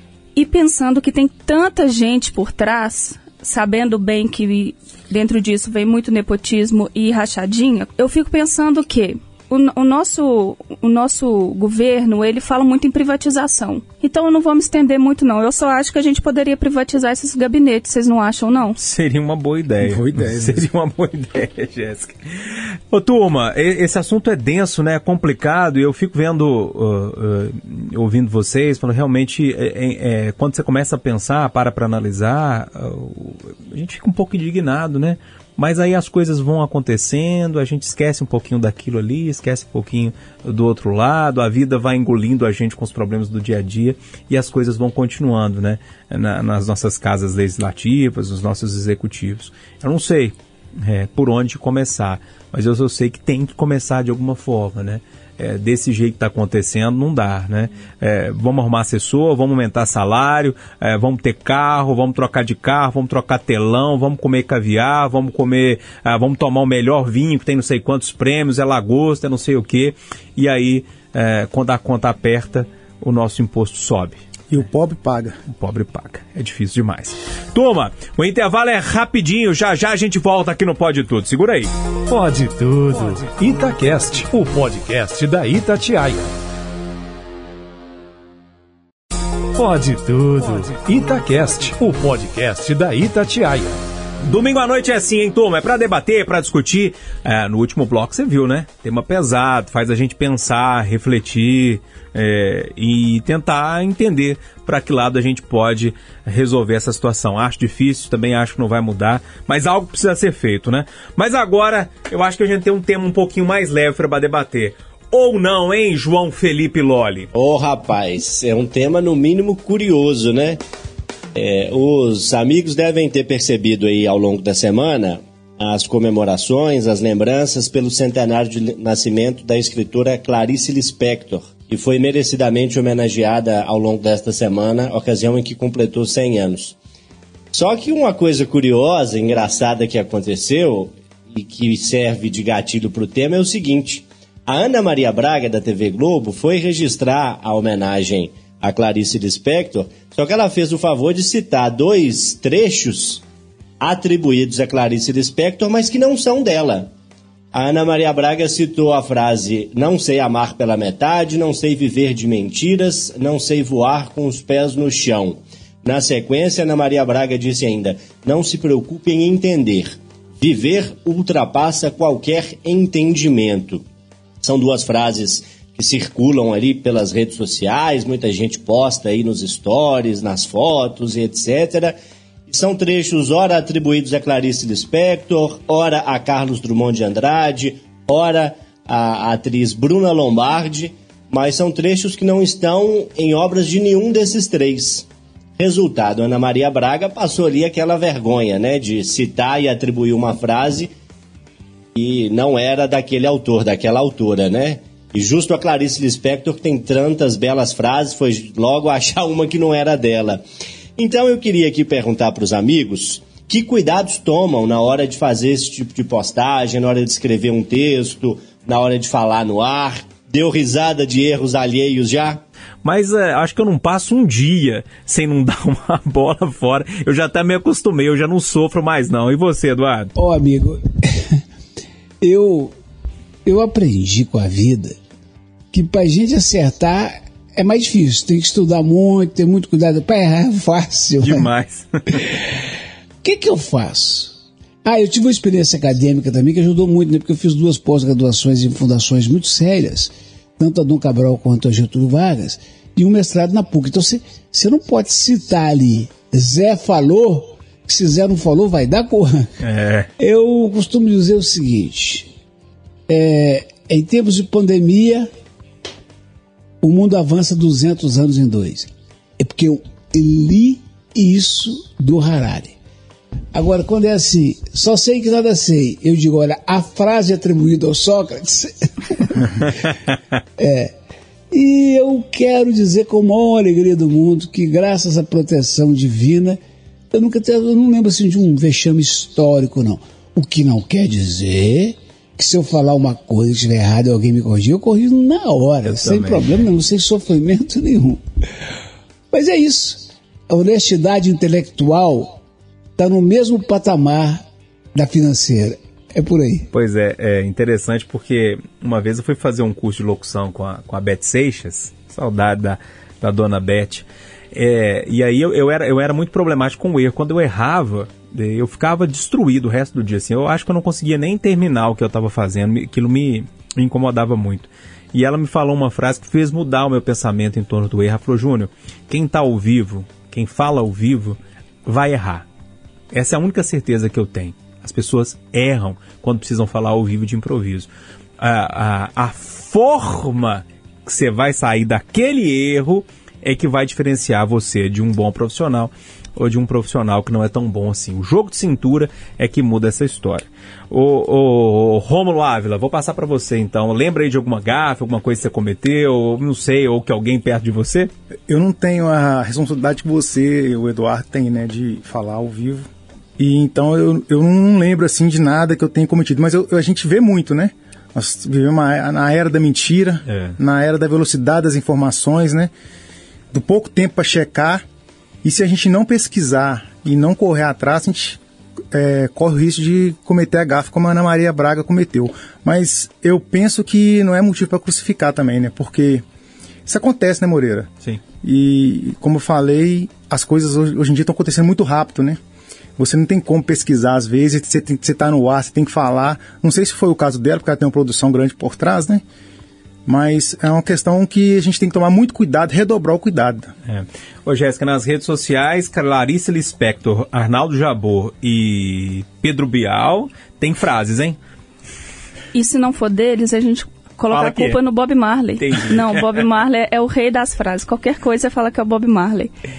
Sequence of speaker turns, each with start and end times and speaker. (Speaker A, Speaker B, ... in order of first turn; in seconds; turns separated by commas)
Speaker A: 0.3-18.8, Speaker B: 18.8-74.2, Speaker C: 19.8-20.7, Speaker C: 74.5-75.4, Speaker B: 75.5-81.7, Speaker D: 82.1-86.2, Speaker D: 89.6-93.7, Speaker B: 94.2-117.3, Speaker E: 117.3-120.6, Speaker E: 121.3-136.8, Speaker E: 137.5-153.2, Speaker E: 153.8-156.9, Speaker E: 157.5-173.8, Speaker E: 174.4-181.9, Speaker E: 182.5-195.1, Speaker E: 195.6-200.9, Speaker E: 201.9-210.4, Speaker E: 211.0-222.4, Speaker B: 222.8-230.1, Speaker F: 230.2-231.4, Speaker F: 232.2-232.7, Speaker F: 233.4-235.0, Speaker F: 235.7-241.5, Speaker B: 241.2-242.2, Speaker F: 243.2-259.5, Speaker B: 259.6-260.1, Speaker F: 260.2-262.3, Speaker F: 263.1-265.3, Speaker F: 266.8-272.8, Speaker F: 273.5-279.7, Speaker F: 280.6-280.9, Speaker F: 281.5-286.6, Speaker F: 287.1-298.2, Speaker B: 295.9-296.5, Speaker F: 299.3-302.4, Speaker F: 303.0-306.7, Speaker B: 306.7-332.4, Speaker B: 333.1-358.1, Speaker C: 358.5-372.7, Speaker B: 370.3-370.6, Speaker C: 373.5-374.8, Speaker C: 375.4-378.4, Speaker C: 378.9-386.2, Speaker C: 386.9-387.9, Speaker C: 388.4-392.4, Speaker C: 393.0-399.2, Speaker C: 400.1-403.7, Speaker B: 403.9-411.4, Speaker A: 412.5-419.5, Speaker B: 414.3-414.8, Speaker B: 415.6-416.4